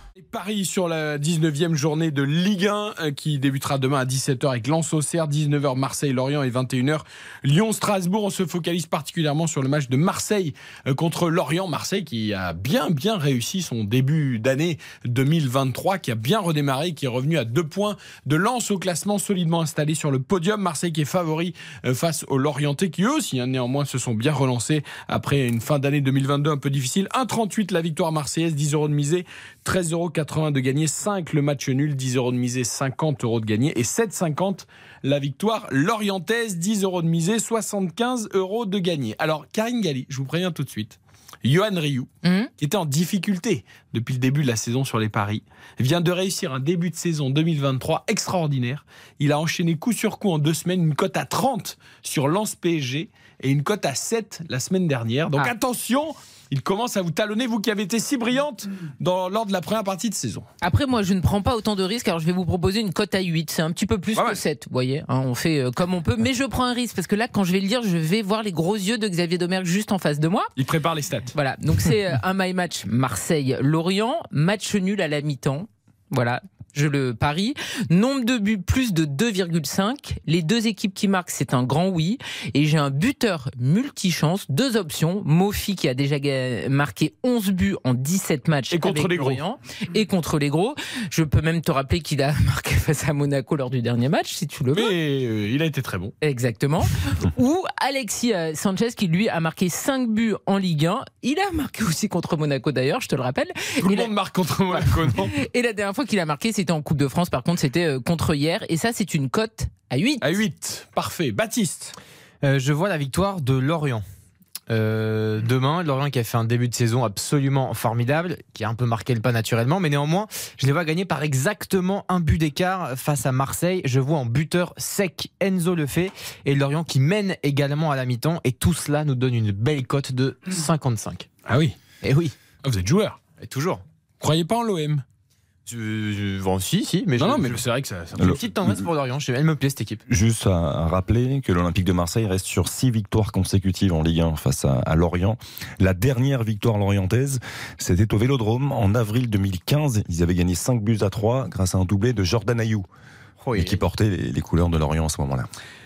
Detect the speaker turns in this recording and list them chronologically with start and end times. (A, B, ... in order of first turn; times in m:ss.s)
0:00.2-1:00.5 A
0:42.2-0:42.5 B
1:00.6-1:10.5 B
1:04.1-1:04.4 A
1:10.6-1:11.3 A
1:11.3-1:35.0 B
1:28.7-1:29.4 A
1:34.7-1:36.1 A
1:36.2-1:44.1 B
1:43.8-1:45.3 A
1:44.7-1:50.4 B
1:50.2-1:51.9 A
1:52.4-1:54.0 C
1:54.7-2:11.3 C
2:11.4-2:11.8 A
2:12.0-2:12.3 C
2:12.6-2:13.2 A
2:13.4-2:13.8 C
2:14.2-2:15.0 A
2:15.7-2:17.6 C
2:17.2-2:18.4 A
2:18.1-2:20.0 C
2:20.1-2:32.9 D
2:33.4-2:33.8 C
2:33.5-2:35.5 D